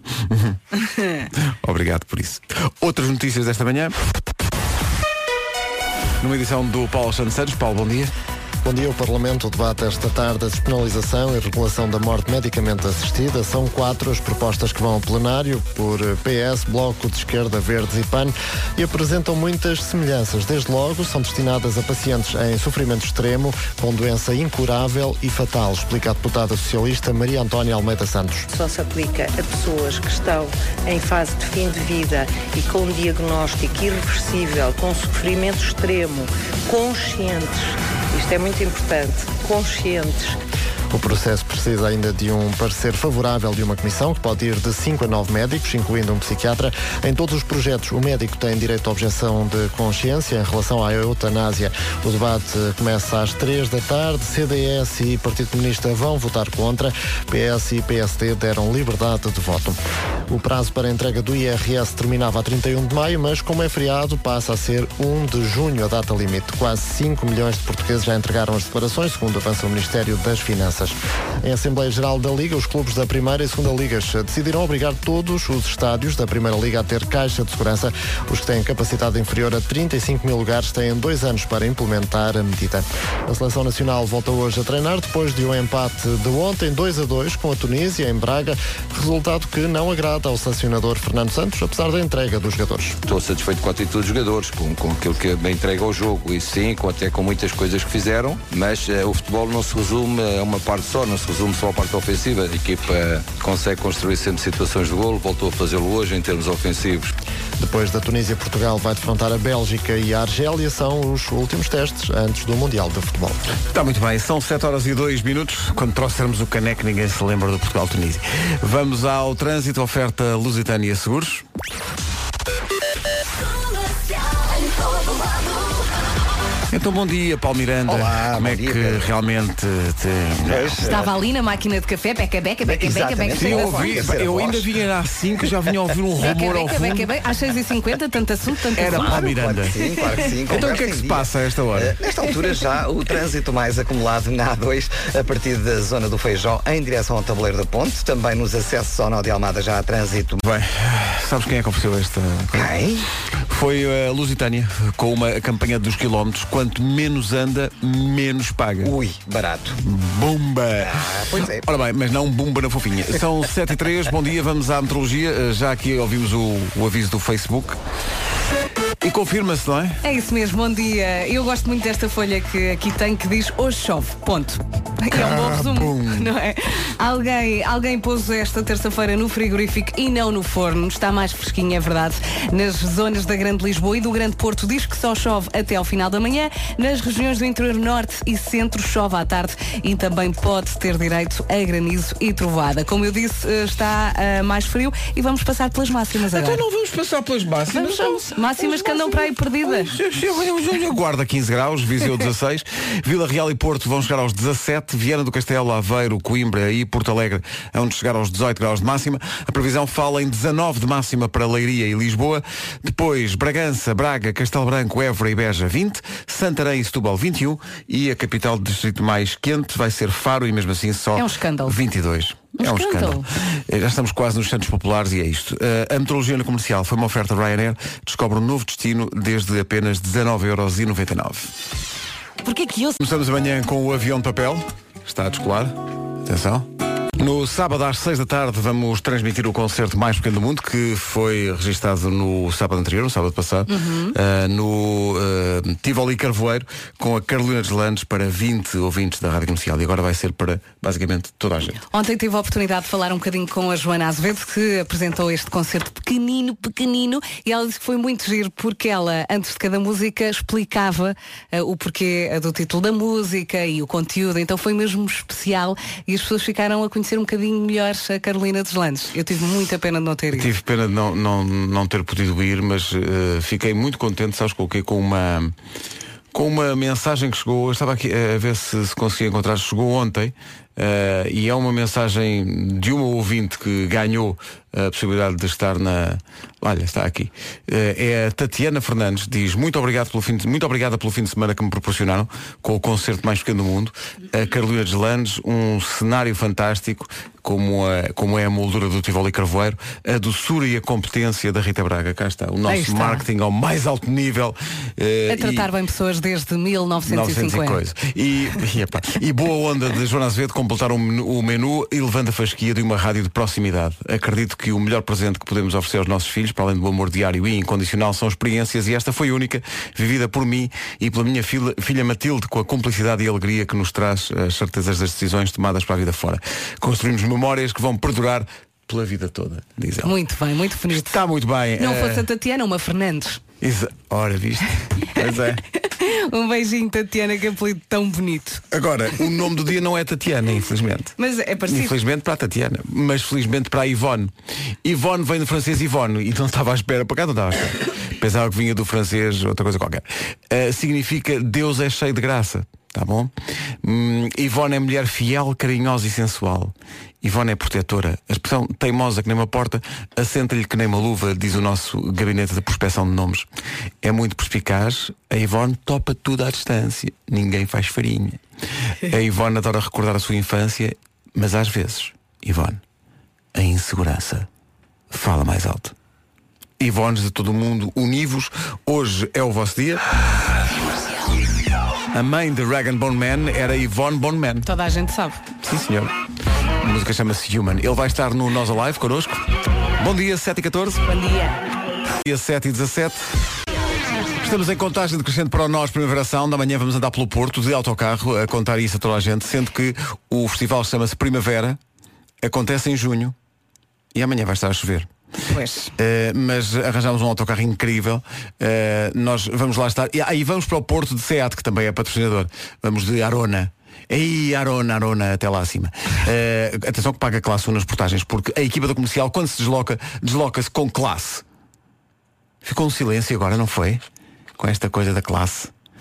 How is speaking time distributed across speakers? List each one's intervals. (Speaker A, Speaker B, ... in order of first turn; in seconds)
Speaker A: 0.3-0.6, 1.4-4.0, 6.2-8.1, 113.7-121.4, 126.7-130.8, 133.4-137.1, 138.8-139.8, 140.5-141.9, 150.4-152.7, 153.5-158.9, 159.8-167.8, 169.0-170.0, 175.1-176.3, 196.3-231.5, 233.0-236.7, 237.2-251.8, 270.3-275.5, 276.3-305.7, 307.1-330.2, 330.9-332.3, 333.6-335.6, 338.7-341.1, 341.7-344.3, 344.8-353.3, 353.8-363.5, 364.0-368.4, 369.1-372.8, 373.5-374.5, 375.1-375.9, 376.8-380.0, 382.1-384.7, 385.6-386.1, 386.8-389.4, 390.0-391.0, 392.2-393.3, 394.4-401.8, 402.4-403.4, 404.1-405.1, 406.0-421.4, 422.6-424.0, 424.6-425.7
Speaker B: 8.6-28.5, 40.9-59.8, 60.3-93.0, 107.6-113.4
Speaker C: 28.5-40.4
Speaker D: 93.1-107.1
Speaker E: 127.9-129.1, 130.5-131.2, 132.6-134.7, 138.8-150.4, 152.5-153.1, 158.8-159.8, 160.9-161.7
Speaker F: 130.8-134.0, 136.2-139.3, 170.0-196.6, 197.7-199.9, 221.2-221.8, 222.6-223.3, 232.4-233.0, 243.7-244.2, 251.9-270.5, 302.7-303.2, 305.3-307.8, 330.0-331.2, 331.8-333.4, 335.8-338.6, 341.2-342.0, 384.6-385.4, 391.1-391.6, 405.5-405.9